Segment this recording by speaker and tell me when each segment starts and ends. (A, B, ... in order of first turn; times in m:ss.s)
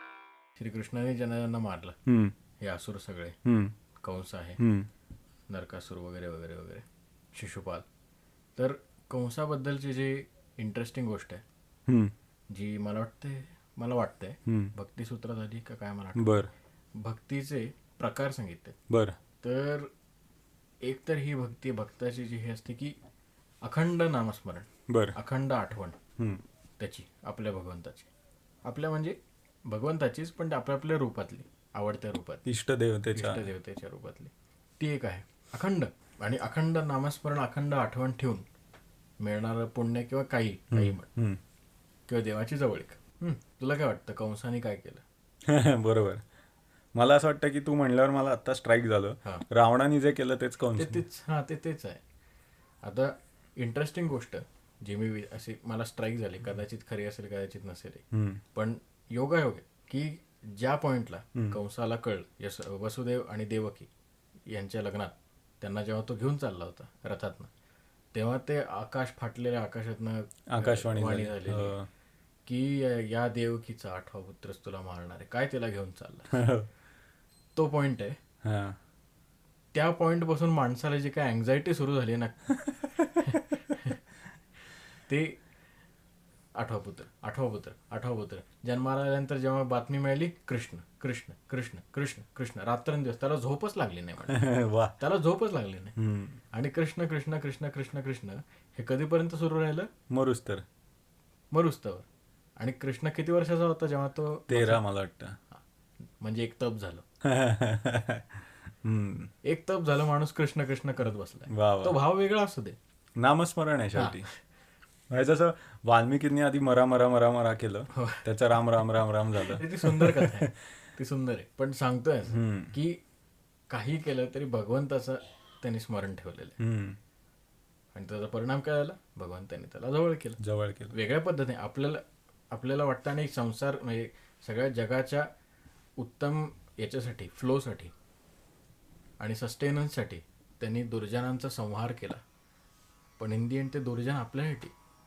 0:00.6-0:02.0 A
0:02.1-0:02.3 B
0:02.6-0:03.4 A
0:03.4-0:03.7 B
0:04.0-0:04.6 A
0:04.6-0:04.9 B
0:05.5-0:07.9 A
0:08.6-0:11.4 A
0:11.9-0:12.1 B
0:12.5-0:16.4 A
0:14.5-0:14.7 B
0:16.2-0:16.5 B
0:17.0-0:18.8 A
0:18.9-0:19.2 B
0:19.4-0:19.9 A
0:20.8-0:23.0 A
0:23.6-0:26.0 A
0:24.9-0:25.1 B
0:26.8-0:28.1 A
0:28.6-0:29.2 A
0:29.7-0:32.4 A
0:32.5-0:33.5 B
0:33.2-0:38.5 A
0:39.2-0:41.1 A
0:40.7-0:41.4 B
0:42.1-0:45.0 A
0:45.5-0:46.2 B
0:47.0-0:51.0 B
0:50.8-0:52.0 A
0:52.8-1:03.9 A
0:58.1-0:58.4 B
1:04.5-1:07.5 A
1:08.1-1:11.8 A
1:10.5-1:11.9 B
1:12.5-1:16.4 A
1:16.3-1:16.7 B
1:17.6-1:18.2 A
1:18.4-1:18.8 B
1:19.7-1:22.6 A
1:23.2-1:24.0 A
1:25.1-1:25.4 A
1:26.6-1:34.4 A
1:34.3-1:34.9 B
1:35.0-1:36.0 A
1:36.0-1:36.4 B
1:36.5-1:39.9 A
1:40.1-1:40.6 B
1:41.5-1:42.1 A
1:42.6-1:44.8 A
1:44.5-1:45.4 B
1:46.2-1:47.0 A
1:47.2-1:49.3 B
1:49.4-1:52.8 A
1:51.5-1:52.0 B
1:53.2-1:54.3 B
1:54.0-1:54.4 A
1:55.1-2:00.5 B
1:57.9-1:58.2 A
1:59.4-2:03.0 A
2:02.3-2:02.8 B
2:03.7-2:06.6 A
2:06.6-2:07.0 B
2:07.9-2:10.4 A
2:10.4-2:10.9 B
2:10.9-2:15.3 A
2:16.0-2:17.9 A
2:19.2-2:22.2 A
2:23.2-2:24.7 A